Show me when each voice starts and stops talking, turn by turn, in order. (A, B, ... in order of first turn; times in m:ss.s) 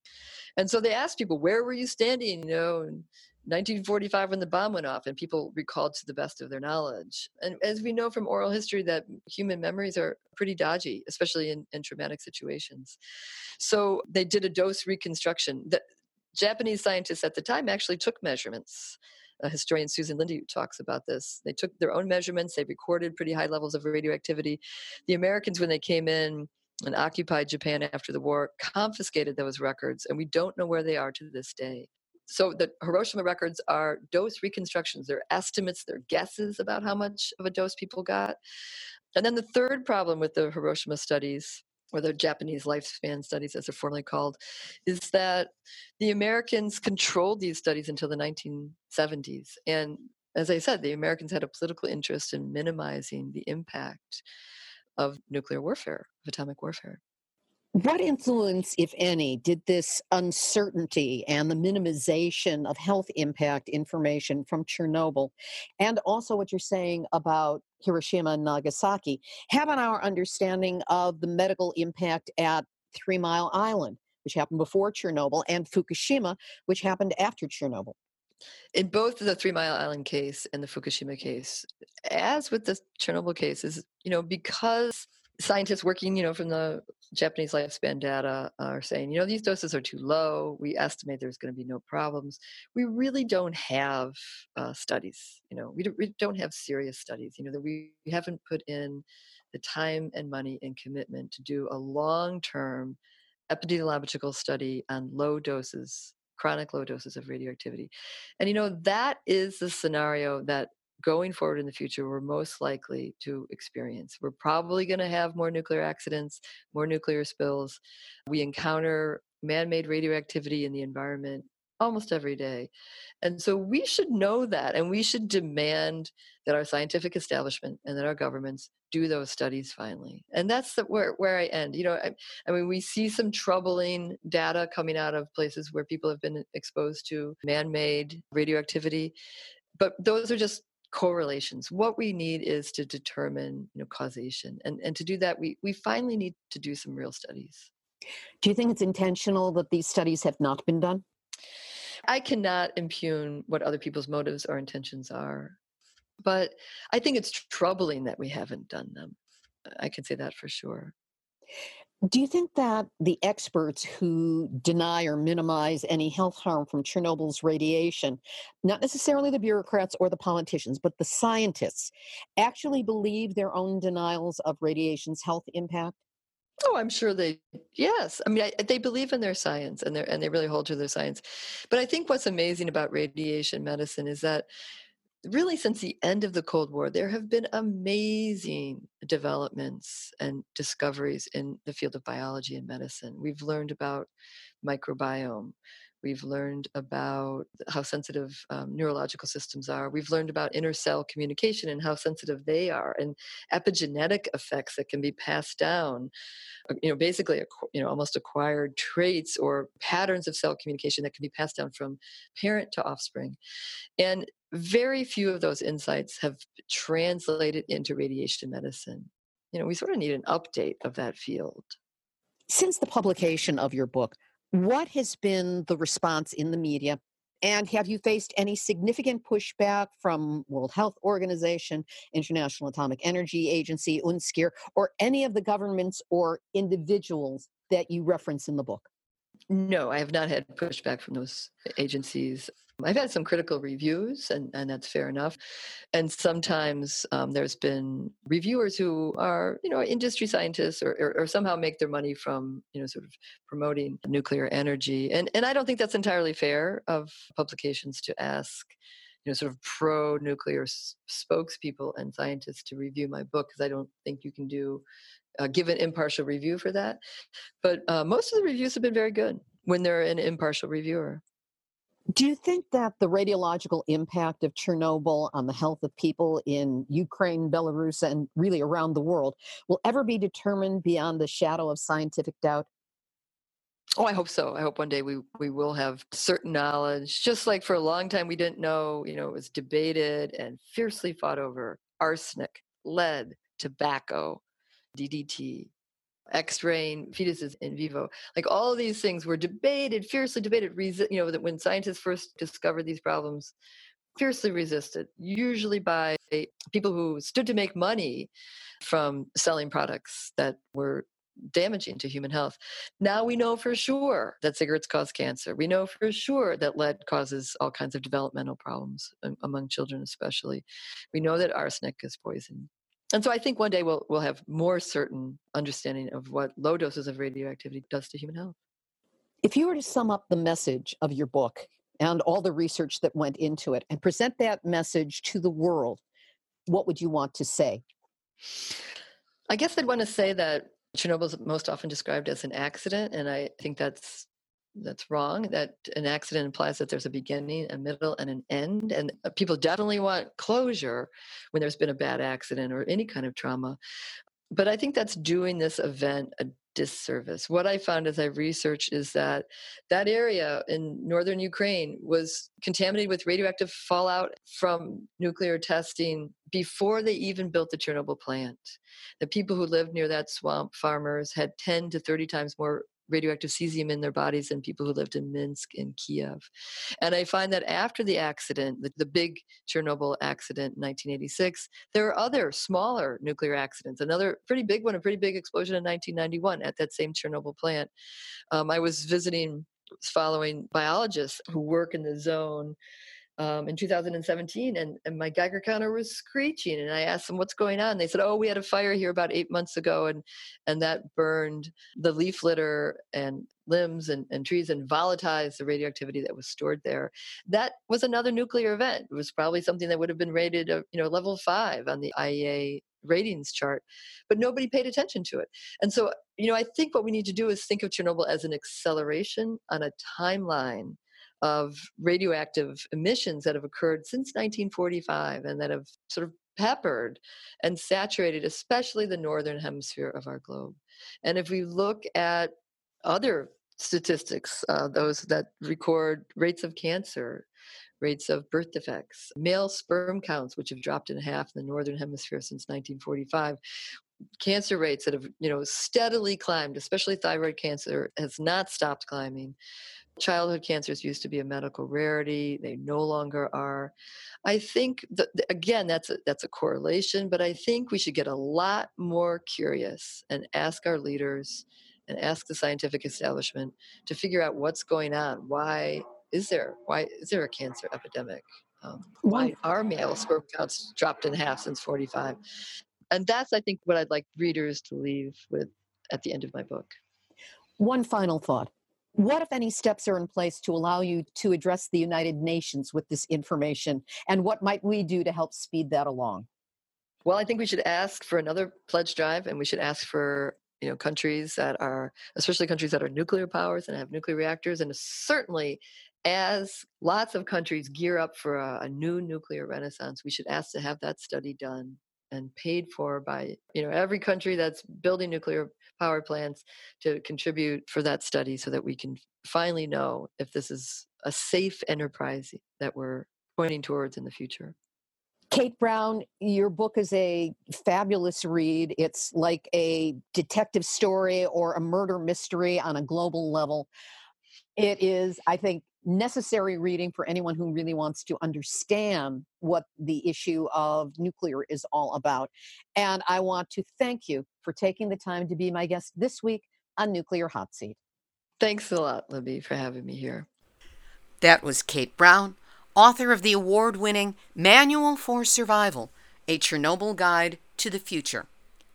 0:00.6-0:13.0 A
0:13.6-0:15.8 A
0:16.3-0:38.4 A
0:39.2-0:54.2 A
0:55.0-0:57.0 A
0:57.8-1:18.0 B
1:18.7-1:43.0 A
1:43.5-2:02.7 A
2:03.2-2:19.2 A
2:19.8-2:27.7 A
2:28.4-2:31.0 B
2:32.1-2:35.6 A
2:36.2-2:39.2 A
2:39.8-2:40.9 A
2:42.1-2:56.0 B
2:56.6-3:04.5 A
3:05.2-3:14.1 A
3:14.6-3:26.1 A
3:26.7-3:33.4 A
3:34.0-3:41.8 A
3:42.5-3:58.9 B
3:59.5-4:05.4 A
4:05.9-4:18.7 A
4:19.2-4:24.8 A
4:25.4-4:27.0 A
4:27.6-4:31.2 A
4:32.1-4:42.7 B
4:44.0-4:54.4 A
4:55.0-4:55.7 A
4:56.3-5:03.5 A
5:04.2-5:08.3 A
5:08.8-5:28.6 A
5:29.4-5:36.0 B
5:36.7-5:37.8 B
5:39.5-5:53.8 A
5:54.5-6:16.4 A
6:17.0-6:27.9 A
6:28.5-6:32.8 A
6:33.4-7:12.5 A
7:13.0-7:17.5 A
7:18.0-7:23.6 A
7:24.4-7:29.6 A
7:30.2-7:33.9 A
7:34.4-7:52.4 A
7:49.2-7:49.5 B
7:53.1-7:57.0 A
7:57.8-8:06.5 B
8:07.2-8:34.8 A
8:35.5-8:43.9 B
8:44.8-8:58.0 B
8:58.6-9:00.5 A
9:01.4-9:08.5 C